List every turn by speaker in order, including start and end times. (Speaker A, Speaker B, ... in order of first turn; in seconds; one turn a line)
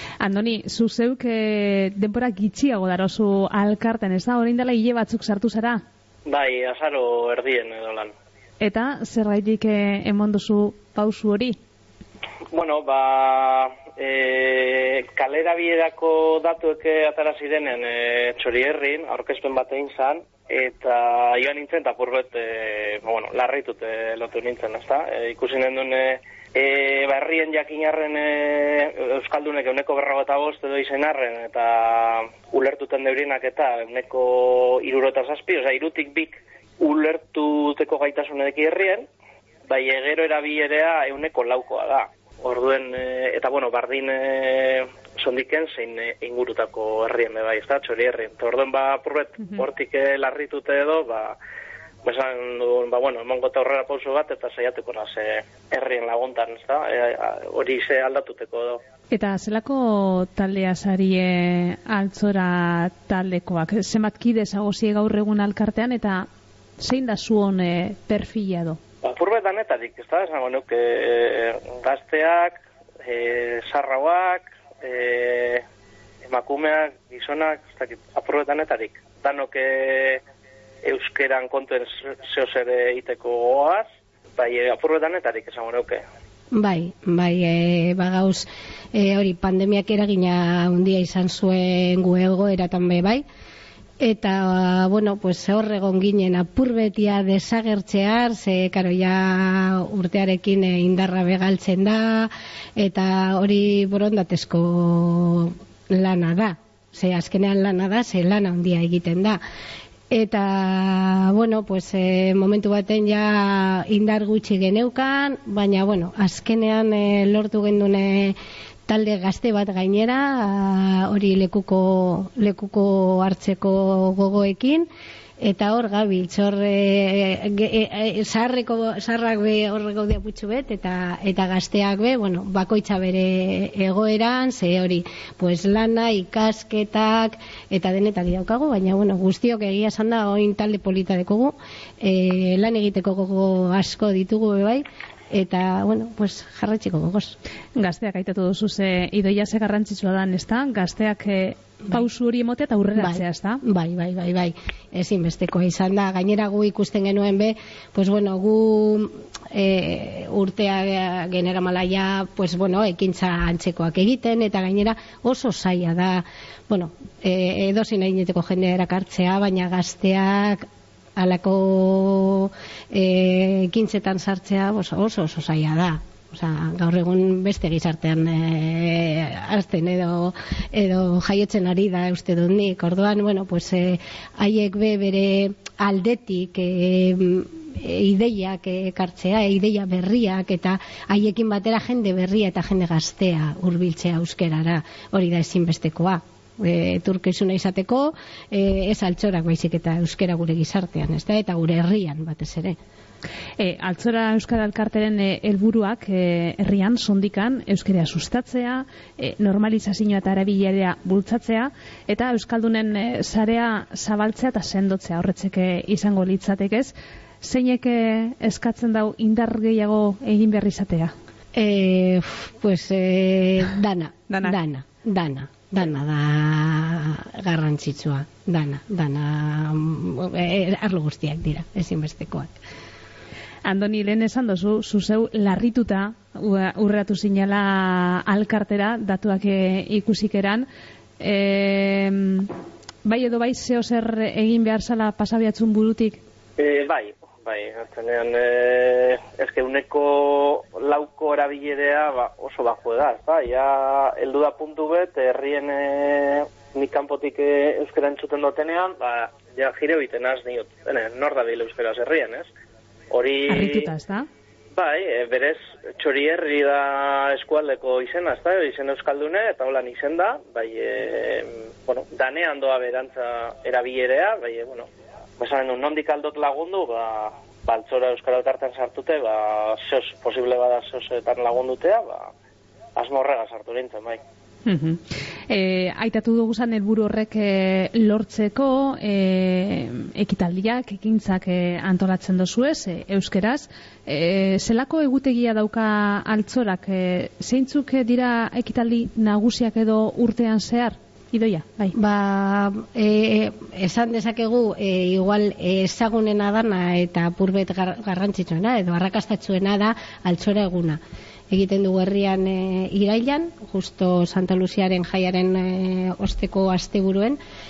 Speaker A: 0.2-5.8
Speaker B: 6.3-8.1
Speaker A: 8.6-11.6
Speaker B: 12.5-39.1
Speaker B: 39.7-51.4
Speaker B: 52.0-58.8
Speaker A: 59.1-66.3
Speaker A: 66.8-68.8
Speaker B: 69.0-75.7
Speaker B: 76.2-80.2
Speaker B: 80.8-86.0
Speaker C: 86.5-93.2
Speaker C: 94.0-109.4
Speaker C: 110.1-124.9
Speaker C: 125.4-147.4
Speaker A: 147.8-153.6
Speaker C: 153.0-202.8
Speaker A: 203.6-221.1
Speaker C: 221.6-232.5
Speaker A: 224.3-224.6
Speaker A: 233.7-240.7
Speaker A: 241.2-242.5
Speaker A: 243.1-246.2
Speaker B: 246.6-262.5
Speaker B: 263.1-263.9
Speaker A: 263.5-264.3
Speaker B: 264.7-274.9
Speaker B: 275.4-282.3
Speaker B: 283.0-284.2
Speaker A: 284.7-301.9
Speaker C: 301.9-311.0
Speaker C: 311.5-317.4